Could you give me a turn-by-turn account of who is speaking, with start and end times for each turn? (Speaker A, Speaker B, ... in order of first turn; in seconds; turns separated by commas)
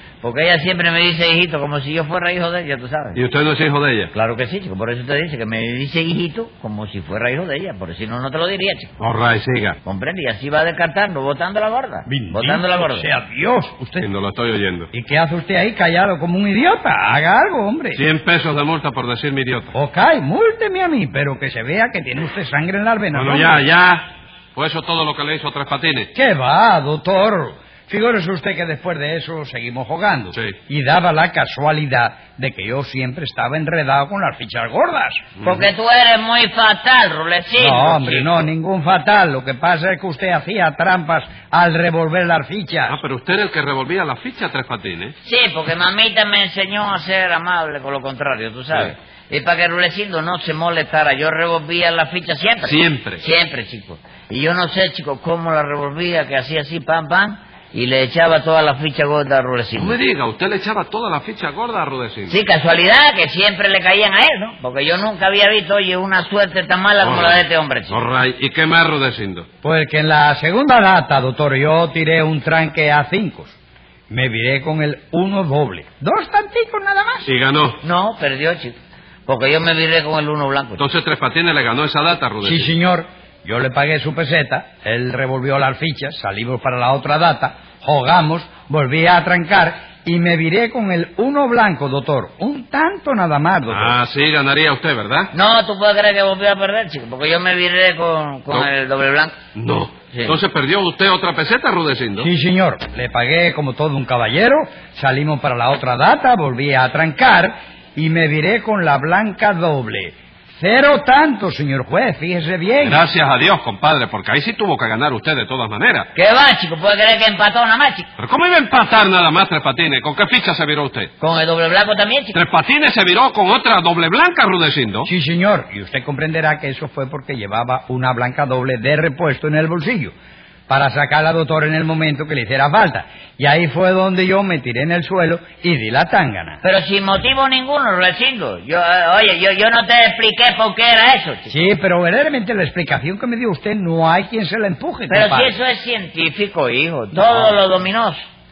Speaker A: 0.2-3.2, Speaker B: 3.1-4.1, Speaker A: 4.1-8.9, Speaker B: 9.0-9.8, Speaker A: 9.8-13.1, Speaker C: 12.1-14.1, Speaker B: 14.0-14.9, Speaker C: 14.9-18.0, Speaker B: 17.9-19.7, Speaker C: 19.7-23.6, Speaker B: 23.1-26.1, Speaker C: 26.1-35.3, Speaker A: 35.4-38.5, Speaker C: 37.6-43.0, Speaker B: 42.9-45.1, Speaker A: 45.2-60.0, Speaker B: 52.6-53.2, Speaker B: 59.8-62.4, Speaker A: 62.3-68.0, Speaker B: 67.0-69.5, Speaker C: 69.6-73.6, Speaker C: 74.1-77.3, Speaker B: 77.2-77.8, Speaker A: 77.8-78.8, Speaker A: 79.2-80.8, Speaker B: 80.8-82.7, Speaker C: 82.4-94.0, Speaker B: 93.7-95.3, Speaker A: 95.3-99.3, Speaker B: 99.5-102.3, Speaker A: 100.1-100.4, Speaker C: 102.2-113.0, Speaker B: 112.8-116.1, Speaker A: 116.1-118.1, Speaker B: 118.2-121.1, Speaker A: 121.2-122.4, Speaker B: 122.3-125.1, Speaker C: 125.1-130.1, Speaker C: 130.7-136.6, Speaker A: 136.6-141.6, Speaker C: 141.5-145.6, Speaker A: 145.1-148.2